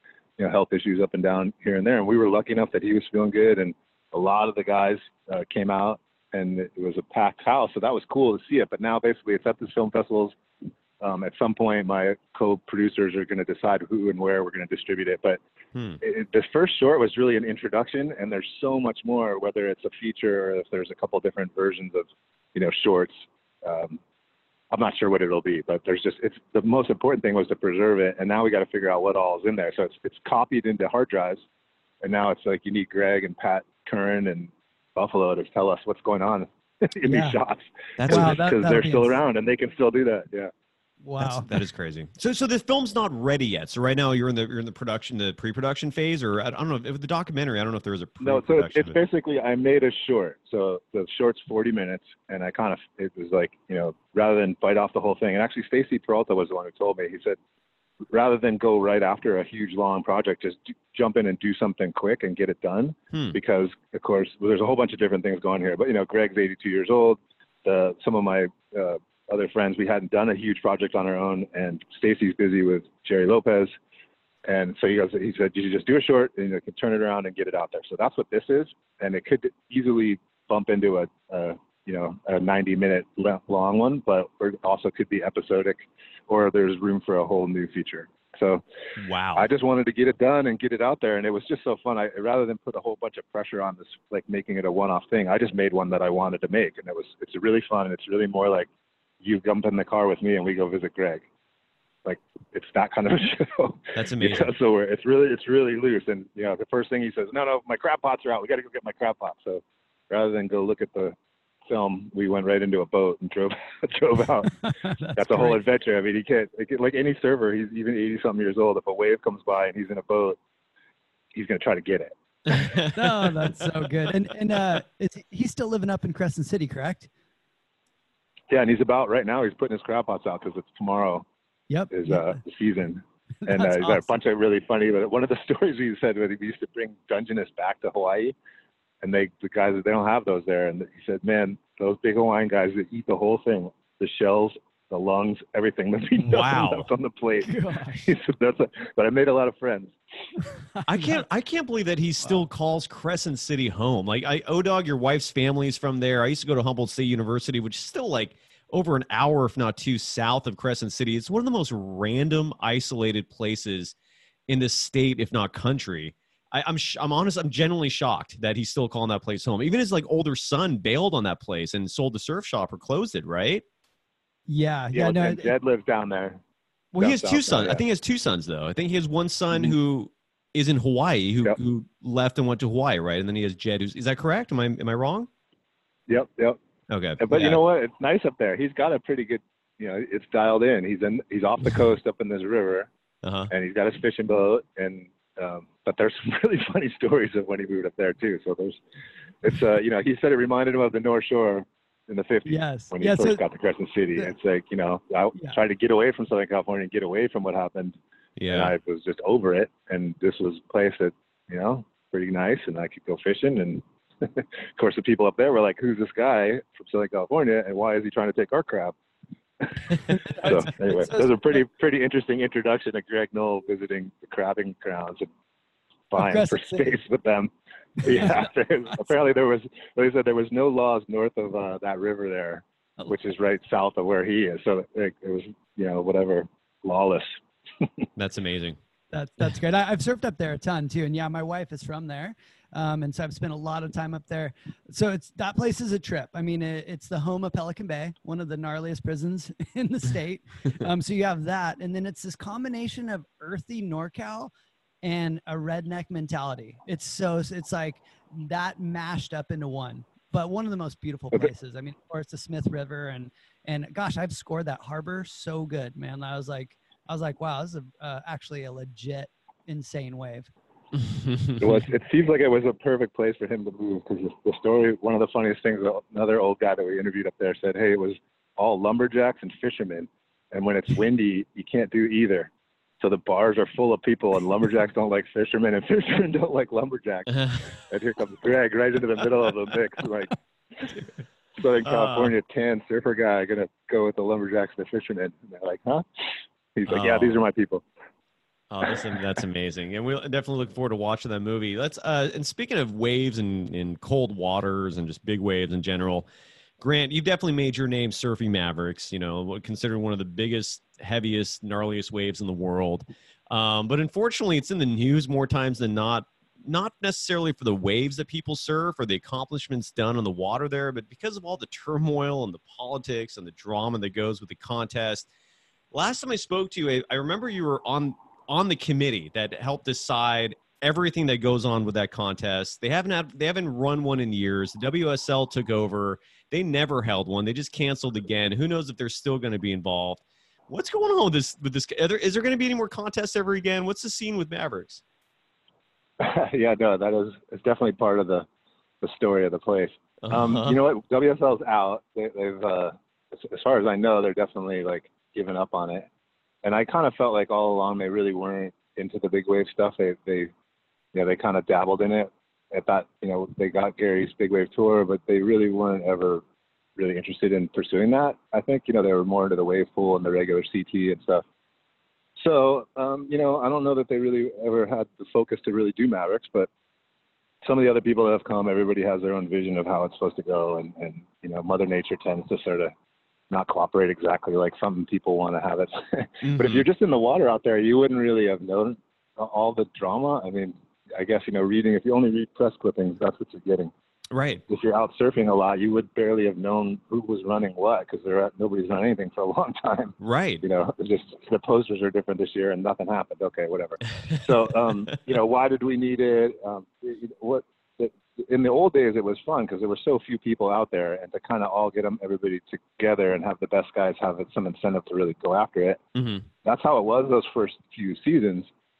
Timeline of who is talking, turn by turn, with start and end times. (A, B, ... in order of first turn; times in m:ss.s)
0:00.4-0:10.3 A
0:11.0-0:15.4 A
0:15.7-0:16.0 B
0:16.0-0:24.0 A
0:24.7-0:31.4 A
0:32.0-0:40.5 A
0:37.0-0:37.4 C
0:38.0-0:38.4 B
0:38.1-0:39.2 C
0:41.0-0:41.5 C
0:41.2-0:49.0 B
0:48.2-0:57.4 A
0:58.1-1:13.7 A
1:03.1-1:03.4 B
1:14.4-1:28.6 A
1:29.0-1:29.5 B
1:29.3-1:38.7 A
1:39.2-1:41.2 A
1:42.0-1:51.1 A
1:43.9-1:44.5 B
1:51.7-1:54.5 A
1:54.6-1:55.6 C
1:55.2-2:00.4 A
2:01.3-2:02.1 A
2:02.5-2:03.6 B
2:02.9-2:07.1 C
2:08.5-2:11.2 A
2:11.7-2:12.4 C
2:11.9-2:18.3 A
2:13.4-2:14.2 C
2:19.0-2:29.9 A
2:26.2-2:26.9 B
2:27.4-2:28.1 C
2:30.7-2:31.2 C
2:30.9-2:43.9 B
2:44.5-2:53.6 B
2:54.5-2:55.5 C
2:54.9-2:56.4 A
2:56.9-3:05.3 B
2:57.0-2:57.8 A
3:06.1-3:06.6 A
3:06.9-3:07.6 B
3:07.2-3:12.9 A
3:13.2-3:13.5 B
3:13.5-3:18.8 A
3:19.4-3:38.9 A
3:22.4-3:23.4 C
3:28.4-3:28.7 B
3:39.6-3:45.3 A
3:40.1-3:41.6 C
3:46.1-3:47.5 A
3:46.1-3:46.9 C
3:48.0-3:48.5 C
3:48.0-3:57.9 A
3:58.2-3:58.8 B
3:59.1-4:14.5 C
4:15.0-4:30.5 C
4:30.9-4:31.6 B
4:31.6-4:42.5 A
4:43.0-4:51.0 A
4:47.4-4:47.8 B
4:51.6-4:56.0 A
4:51.8-4:52.3 B
4:56.8-4:57.8 A
4:56.9-4:57.4 B
4:58.7-5:06.3 B
5:06.8-5:25.3 B
5:25.9-5:45.0 B
5:46.2-5:48.4 A
5:49.0-5:56.1 A
5:50.2-5:50.8 B
5:56.6-6:00.5 A
6:01.1-6:06.4 A
6:07.0-6:11.4 A
6:12.4-6:16.7 A
6:17.6-6:22.9 A
6:23.5-6:33.9 A
6:26.4-6:26.9 B
6:34.3-6:34.6 B
6:34.7-6:56.0 A
6:40.2-6:40.6 B
6:56.1-6:56.4 B
6:56.6-6:58.7 A